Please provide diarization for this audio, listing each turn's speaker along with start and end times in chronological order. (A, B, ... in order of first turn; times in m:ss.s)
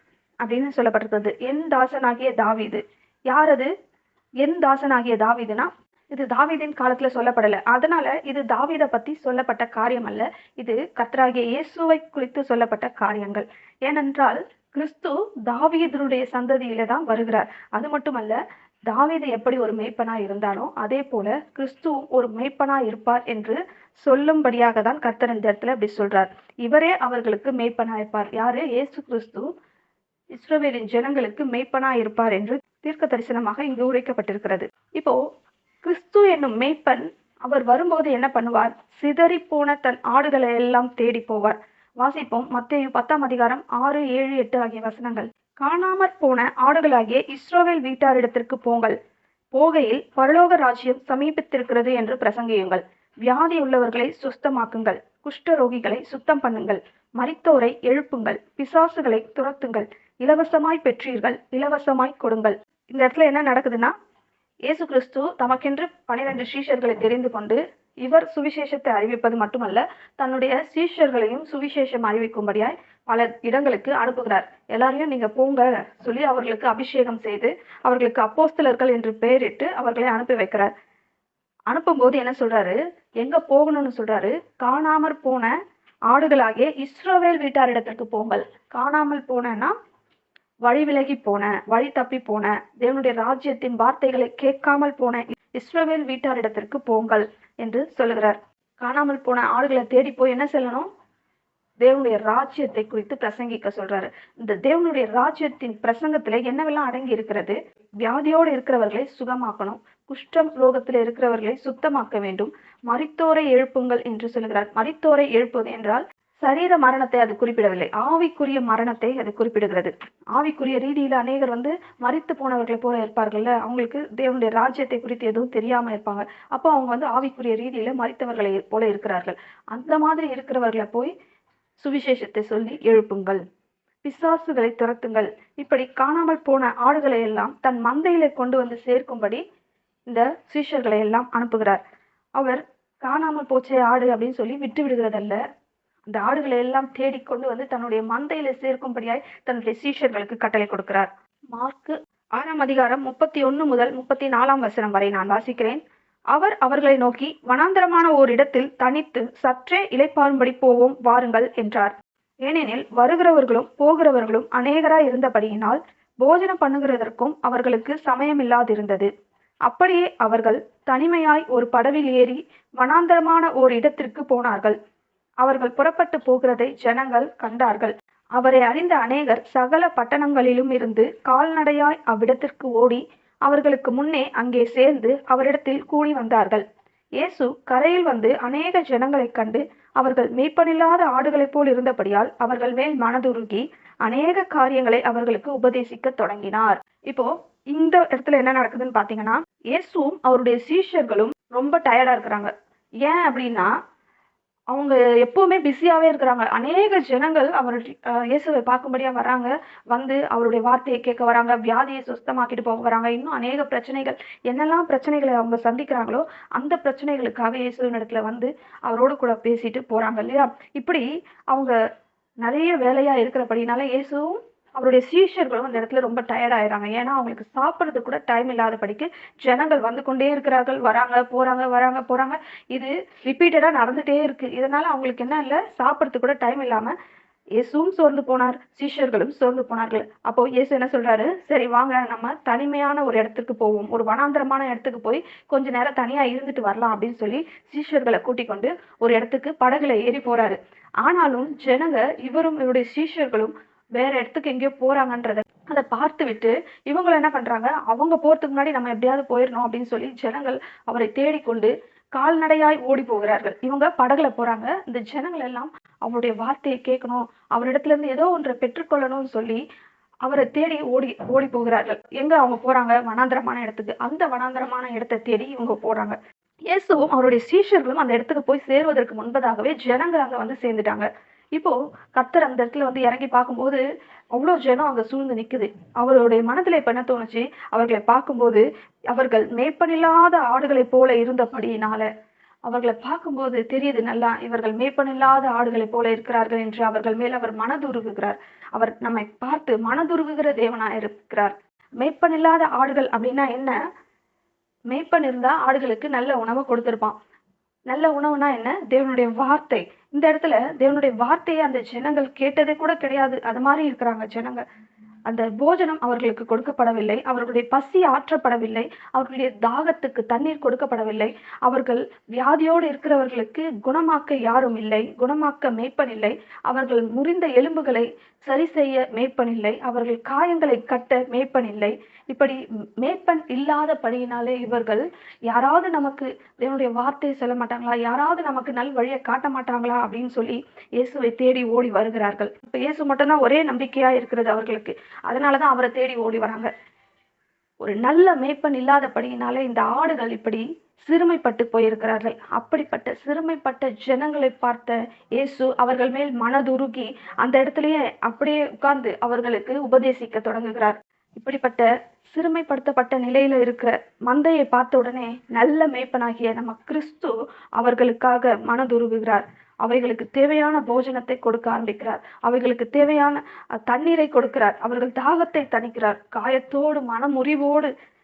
0:00.4-0:03.7 A
0:04.4-0:29.5 A
0:30.3-0:35.2 A
0:35.8-0:49.0 A
0:49.5-1:03.9 A
1:04.7-1:20.7 A
1:21.7-1:25.5 A
1:26.1-1:29.7 A
1:30.7-1:40.9 A
1:41.8-2:11.1 A
2:11.8-2:13.4 A
2:14.0-2:19.4 A
2:20.1-2:21.8 A
2:22.4-2:25.4 A
2:26.1-2:35.8 A
2:36.3-2:41.9 A
2:42.4-2:49.1 A
2:49.7-2:54.8 A
2:55.4-3:06.6 A
3:07.2-3:22.5 A
3:23.0-3:23.7 A
3:24.7-3:41.8 A
3:42.4-3:56.9 A
3:57.6-4:29.6 A
4:30.3-4:36.2 A
4:36.7-4:43.8 A
4:44.4-4:52.1 A
4:52.7-5:03.8 A
5:04.9-5:07.1 A
5:07.9-5:14.6 A
5:15.3-5:46.7 A
5:47.8-6:17.9 A